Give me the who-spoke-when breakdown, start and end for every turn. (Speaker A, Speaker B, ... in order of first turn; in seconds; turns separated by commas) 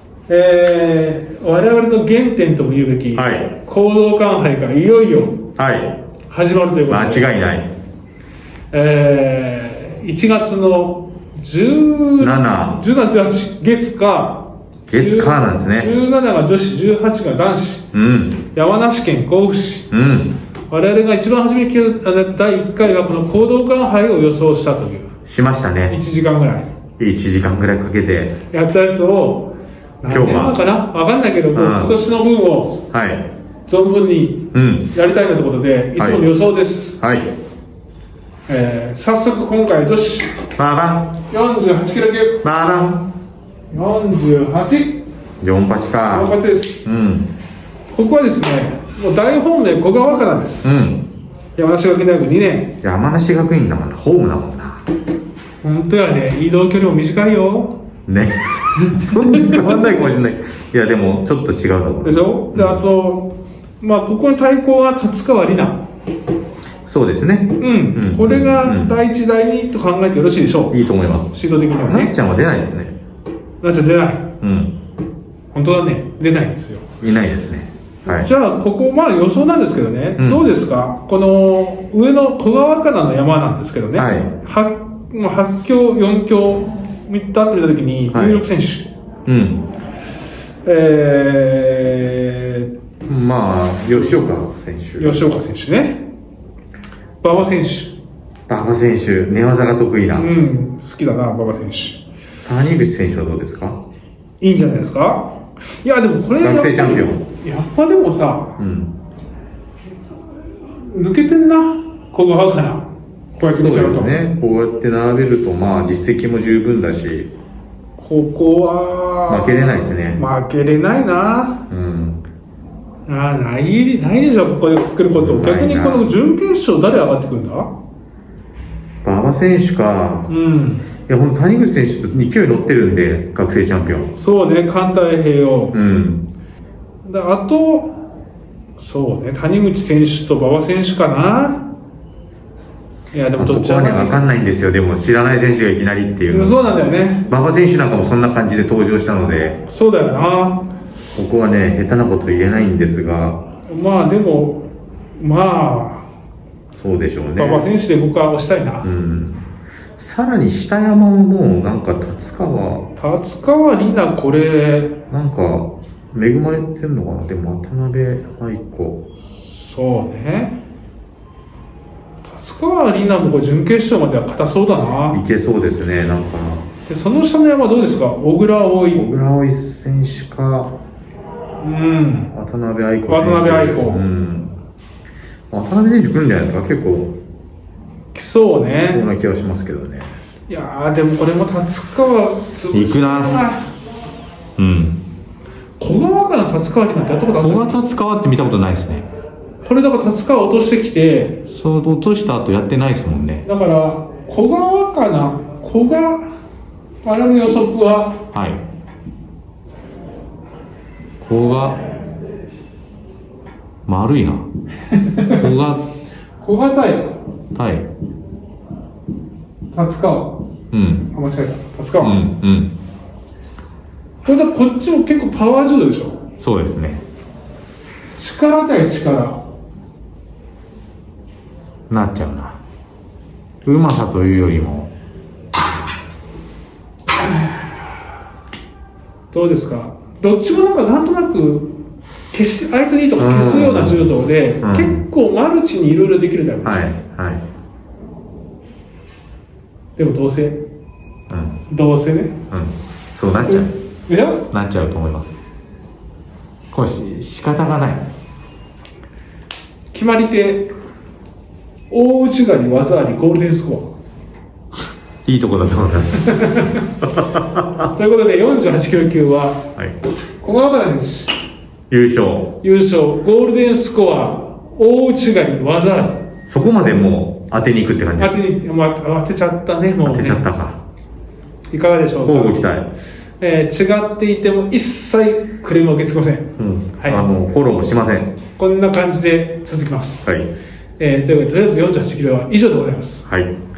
Speaker A: 0.3-5.5, Speaker B: 3.1-3.5, Speaker B: 5.6-6.0, Speaker A: 6.3-7.3, Speaker B: 6.9-7.7, Speaker A: 8.7-17.9, Speaker B: 12.2-12.8, Speaker B: 14.9-15.9, Speaker B: 17.9-18.4, Speaker A: 18.5-19.9, Speaker B: 19.9-20.4, Speaker A: 20.7-25.1, Speaker B: 25.2-26.0, Speaker A: 25.9-26.7, Speaker B: 27.0-28.4, Speaker A: 28.5-32.8, Speaker B: 30.1-30.6, Speaker B: 31.5-32.0, Speaker B: 32.9-33.3, Speaker A: 33.7-37.0, Speaker B: 34.5-34.9, Speaker B: 36.0-36.3, Speaker B: 37.0-37.3, Speaker A: 38.5-40.4, Speaker B: 40.6-41.2, Speaker A: 41.3-42.4, Speaker B: 42.4-43.1, Speaker A: 43.7-45.0, Speaker B: 45.4-47.3, Speaker A: 46.1-46.8, Speaker A: 47.9-50.7, Speaker B: 50.6-51.1, Speaker A: 51.6-52.8, Speaker B: 52.8-54.8, Speaker A: 55.6-57.8, Speaker B: 58.1-62.8, Speaker A: 58.8-59.9, Speaker A: 62.0-65.8, Speaker B: 66.8-69.0, Speaker A: 67.6-70.8, Speaker B: 70.7-73.0, Speaker A: 71.3-72.1, Speaker A: 73.6-74.3, Speaker B: 74.4-74.8, Speaker A: 75.5-76.9, Speaker B: 77.0-78.3, Speaker A: 78.1-88.9, Speaker B: 80.2-80.5, Speaker B: 83.9-84.3, Speaker B: 88.1-88.4, Speaker B: 89.3-89.6, Speaker A: 90.7-92.7, Speaker B: 93.1-95.3, Speaker A: 95.0-96.1, Speaker A: 97.2-98.0, Speaker B: 98.5-100.3, Speaker A: 100.2-102.0, Speaker B: 102.5-103.8, Speaker A: 104.4-108.6, Speaker B: 106.4-107.2, Speaker B: 108.6-108.9, Speaker A: 110.8-114.2, Speaker B: 113.4-117.3, Speaker A: 118.0-121.6, Speaker B: 119.3-120.2, Speaker B: 121.7-122.2, Speaker A: 123.1-127.7, Speaker B: 125.1-126.1, Speaker B: 129.0-130.3, Speaker A: 130.3-130.9, Speaker B: 131.1-134.1, Speaker A: 134.2-135.8, Speaker B: 135.7-136.2, Speaker A: 137.0-137.9, Speaker A: 138.8-141.7, Speaker A: 143.1-144.2, Speaker B: 143.4-146.6, Speaker A: 146.3-147.3, Speaker B: 147.3-149.6, Speaker A: 149.7-150.7, Speaker B: 151.2-153.4, Speaker A: 153.7-154.7, Speaker A: 155.2-156.1, Speaker B: 156.7-157.7, Speaker A: 157.4-158.9, Speaker B: 158.8-162.9, Speaker A: 163.0-164.9, Speaker B: 165.1-169.0, Speaker A: 169.5-170.6, Speaker A: 172.2-175.2, Speaker B: 175.1-176.7, Speaker A: 176.9-179.1, Speaker B: 178.9-180.7, Speaker A: 181.6-182.3, Speaker B: 182.3-184.5, Speaker A: 183.1-184.0, Speaker B: 185.5-187.2, Speaker A: 188.1-189.1, Speaker B: 188.8-190.1, Speaker A: 190.5-193.7, Speaker B: 192.7-193.5, Speaker B: 194.6-195.0, Speaker A: 195.8-197.8, Speaker B: 197.4-199.1, Speaker A: 199.6-201.4, Speaker B: 201.5-203.5, Speaker A: 203.4-206.3, Speaker A: 207.0-208.2, Speaker B: 208.3-208.6, Speaker B: 211.2-211.8, Speaker B: 213.9-214.5, Speaker A: 214.9-215.4, Speaker B: 215.2-215.9, Speaker A: 216.4-217.2, Speaker B: 217.6-217.9, Speaker A: 219.7-220.3, Speaker B: 220.7-221.1, Speaker A: 221.1-222.2, Speaker B: 222.0-222.8, Speaker A: 224.2-226.2, Speaker B: 226.4-227.0, Speaker A: 228.2-229.4, Speaker B: 231.9-232.6, Speaker B: 233.6-234.9, Speaker A: 237.2-237.6, Speaker A: 239.3-241.7, Speaker A: 242.3-246.9, Speaker B: 243.2-245.0, Speaker B: 246.6-247.4, Speaker A: 250.0-250.6, Speaker B: 251.3-251.6, Speaker A: 251.7-252.4, Speaker B: 252.5-253.7, Speaker A: 253.5-254.4, Speaker B: 254.5-255.4, Speaker B: 256.7-258.1, Speaker A: 259.9-260.7, Speaker A: 261.9-263.9, Speaker B: 265.2-266.6, Speaker A: 266.2-266.9, Speaker B: 267.1-267.9, Speaker A: 267.9-269.6, Speaker A: 270.4-271.3, Speaker B: 271.9-272.6, Speaker A: 272.6-276.3, Speaker B: 276.5-278.4, Speaker A: 278.2-280.5, Speaker B: 280.0-280.8, Speaker A: 281.7-282.7, Speaker B: 282.2-282.9, Speaker A: 283.4-287.3, Speaker B: 286.6-288.3, Speaker A: 288.6-290.4, Speaker B: 290.2-290.5, Speaker A: 291.0-293.3, Speaker B: 293.3-293.5